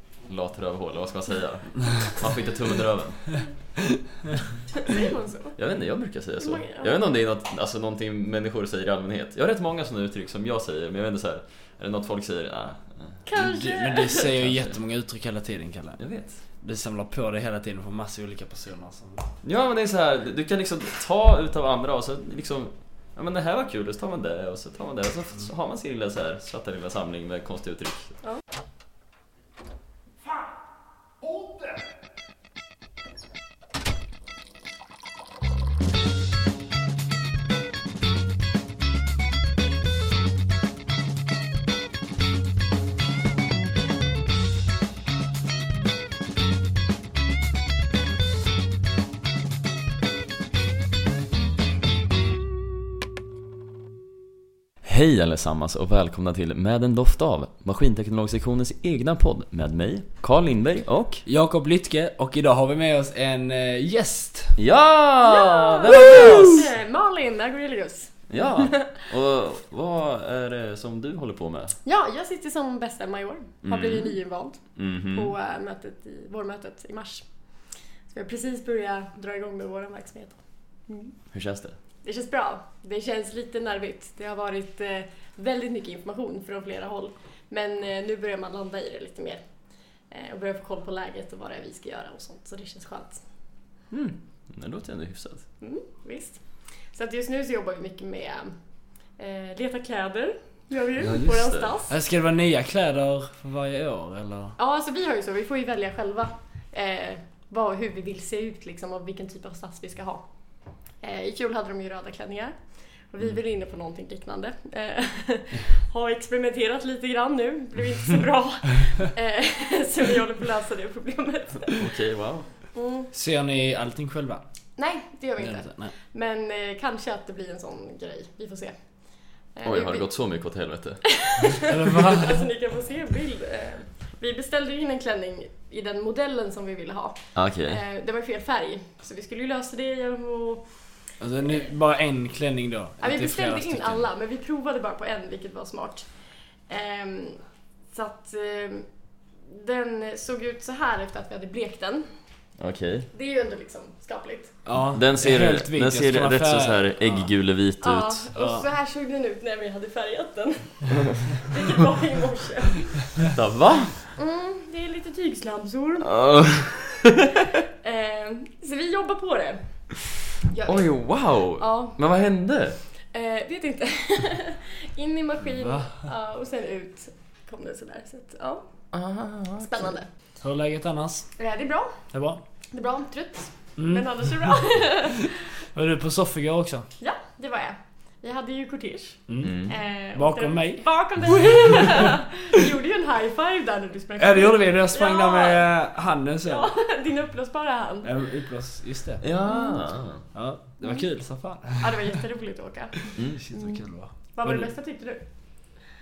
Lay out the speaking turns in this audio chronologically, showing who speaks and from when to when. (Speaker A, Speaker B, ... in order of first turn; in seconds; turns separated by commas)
Speaker A: 0.2-3.3, Speaker B: 4.8-5.6, Speaker A: 5.6-13.3, Speaker B: 6.4-7.2, Speaker B: 13.3-14.3, Speaker C: 13.3-19.3, Speaker A: 14.3-14.8, Speaker A: 16.0-16.4, Speaker A: 19.4-28.2, Speaker A: 54.8-61.2, Speaker C: 61.3-64.6, Speaker A: 64.6-66.7, Speaker B: 65.2-68.9, Speaker C: 65.9-66.7, Speaker A: 68.3-71.8, Speaker B: 71.9-77.2, Speaker A: 73.6-74.2, Speaker A: 74.8-75.3, Speaker B: 78.1-81.2, Speaker A: 81.3-81.8, Speaker B: 82.0-89.4, Speaker B: 90.1-93.2, Speaker A: 93.9-95.4, Speaker B: 95.6-98.5, Speaker B: 99.2-102.0, Speaker A: 101.0-101.7, Speaker C: 101.9-104.6, Speaker B: 104.6-110.3, Speaker B: 111.0-121.9, Speaker A: 121.8-122.5, Speaker B: 122.7-123.1, Speaker C: 123.1-124.4, Speaker B: 124.8-130.1, Speaker C: 125.4-125.9, Speaker A: 129.6-131.1, Speaker B: 131.2-140.7, Speaker C: 131.7-132.5, Speaker A: 137.3-137.8, Speaker C: 141.2-144.0, Speaker B: 143.0-146.1, Speaker B: 146.7-148.9, Speaker B: 149.4-152.1, Speaker A: 152.6-153.1, Speaker B: 153.1-154.7, Speaker C: 154.7-157.3, Speaker A: 154.9-158.2, Speaker B: 157.8-163.2, Speaker C: 158.3-158.7, Speaker A: 160.9-161.2, Speaker A: 163.3-163.9, Speaker B: 164.1-166.1, Speaker A: 166.0-167.3, Speaker B: 167.8-169.9, Speaker B: 170.4-172.0, Speaker A: 170.7-172.8, Speaker B: 173.1-178.7, Speaker C: 175.6-175.9, Speaker A: 178.9-179.9, Speaker B: 179.6-180.1, Speaker C: 180.4-181.3, Speaker B: 181.4-182.1, Speaker C: 182.1-182.4, Speaker B: 182.7-185.3, Speaker C: 183.8-184.6, Speaker C: 185.7-186.9, Speaker B: 187.0-195.7, Speaker C: 189.3-189.6, Speaker A: 189.4-189.7, Speaker C: 190.1-192.2, Speaker C: 194.2-196.7, Speaker B: 196.4-198.1, Speaker C: 198.0-199.2, Speaker A: 199.2-200.2, Speaker B: 199.5-199.9, Speaker C: 200.3-202.2, Speaker B: 200.8-201.1, Speaker B: 201.8-205.8, Speaker A: 203.2-203.4, Speaker C: 203.3-204.7